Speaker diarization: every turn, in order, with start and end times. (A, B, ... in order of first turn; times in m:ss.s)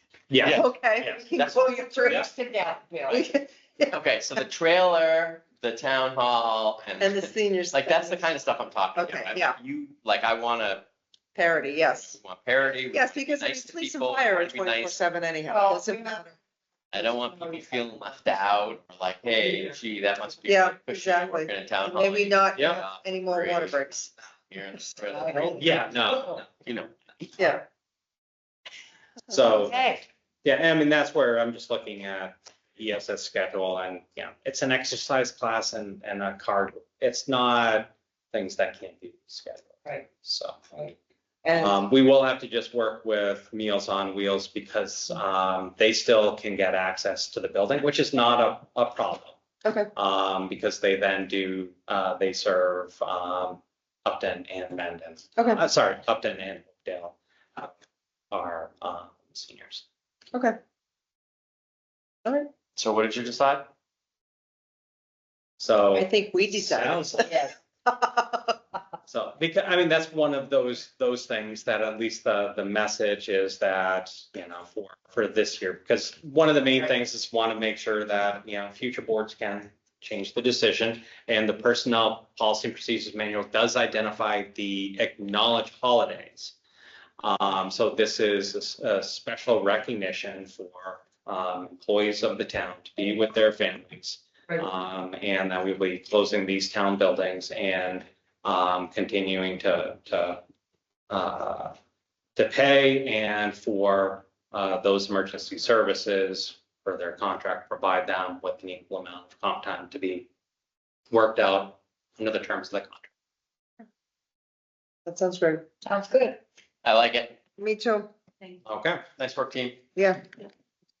0:00.3-0:01.2 A
0:00.4-0:02.3 B
0:01.4-0:01.6 C
0:01.4-0:03.2 D
0:03.1-0:03.9 B
0:03.9-0:10.8 C
0:07.0-0:08.3 B
0:08.9-0:09.6 B
0:11.3-0:12.2 B
0:12.0-0:15.0 C
0:12.9-0:16.4 B
0:15.5-0:16.2 D
0:16.9-0:25.6 C
0:20.4-0:24.1 B
0:22.6-0:22.8 A
0:25.3-0:26.4 A
0:25.4-0:25.6 D
0:26.6-0:27.5 C
0:27.4-0:27.6 B
0:29.3-0:29.9 A
0:29.7-0:30.0 D
0:30.4-0:40.8 A
0:41.4-0:41.8 B
0:41.5-0:49.4 A
0:49.9-0:57.7 A
0:55.4-0:55.6 B
0:58.3-0:59.8 A
1:02.2-1:02.5 B
1:02.8-1:03.7 C
1:05.6-1:07.5 A
1:05.9-1:08.6 B
1:09.0-1:26.5 A
1:27.2-1:40.4 A
1:41.1-1:41.7 A
1:42.4-1:50.3 A
1:51.1-1:53.1 A
1:55.0-1:55.7 B
1:55.8-1:56.4 D
1:56.8-1:57.4 C
1:57.6-1:58.1 B
1:58.6-1:59.0 A
1:59.2-1:59.8 C
2:00.0-2:00.2 B